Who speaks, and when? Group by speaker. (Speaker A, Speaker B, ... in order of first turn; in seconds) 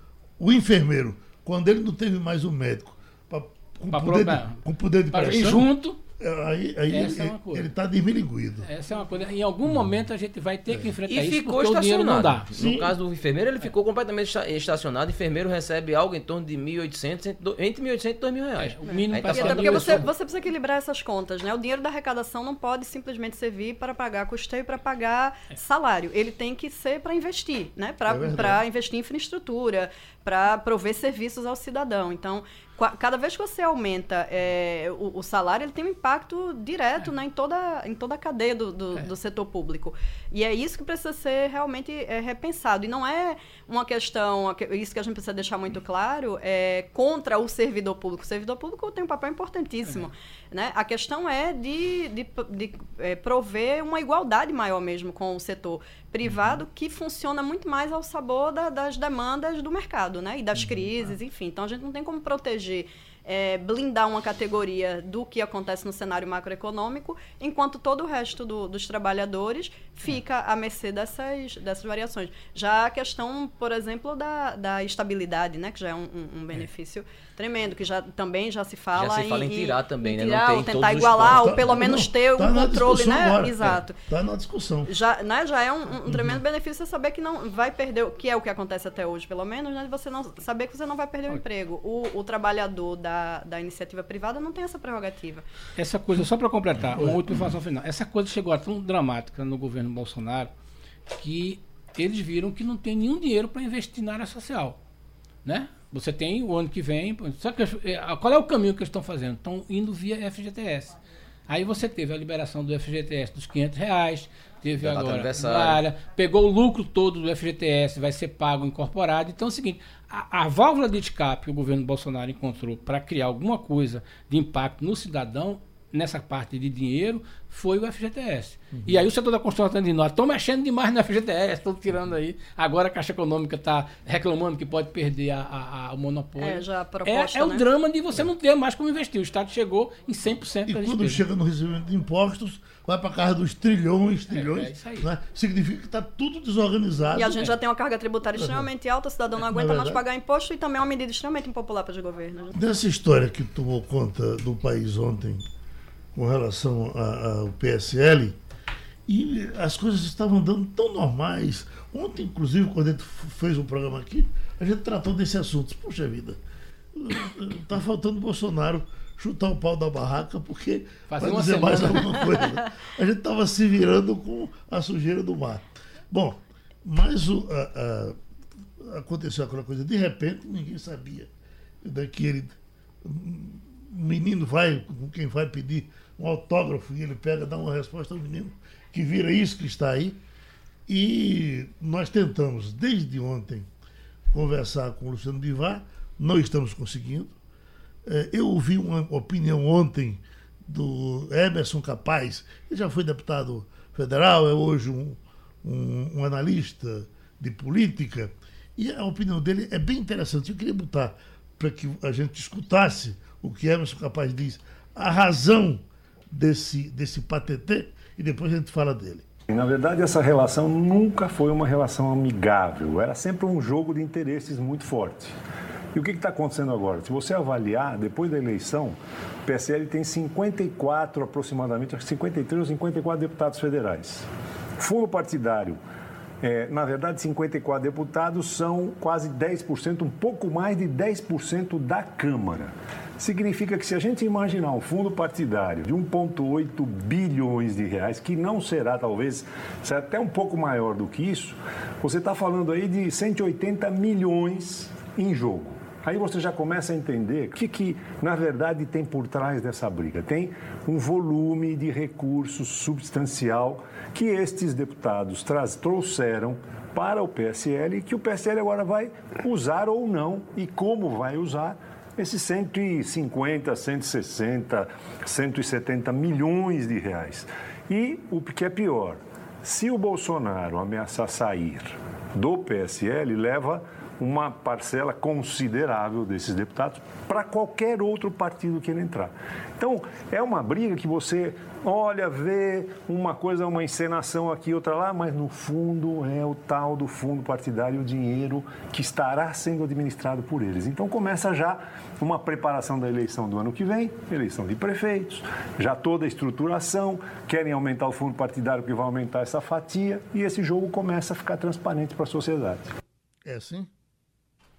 Speaker A: 0.4-8.7, 12.5-12.9, 28.1-28.6, 56.2-56.5, 60.5-61.0, 81.0-84.9, 97.0-97.2, 128.7-129.1, 140.7-147.4, 148.3-148.7, 149.5-150.0, 152.5-155.4, 156.1-158.4, 159.1-166.4, 166.9-178.2, 178.8-181.3, 181.8-190.2, 190.9-193.7, 194.3-197.3, 198.1-219.3, 313.4-313.9
Speaker B: 3.9-6.0, 6.9-7.7, 8.6-12.5, 18.6-20.1, 95.8-100.5, 101.1-104.8, 105.4-111.0, 111.5-141.2, 144.3-145.1, 171.1-172.4
Speaker C: 11.1-20.1, 78.9-81.5, 114.8-115.8
Speaker D: 18.9-84.0, 84.9-95.4, 136.4-137.7, 147.1-152.6
Speaker E: 219.5-225.3, 225.9-234.3, 234.8-235.8, 236.4-312.9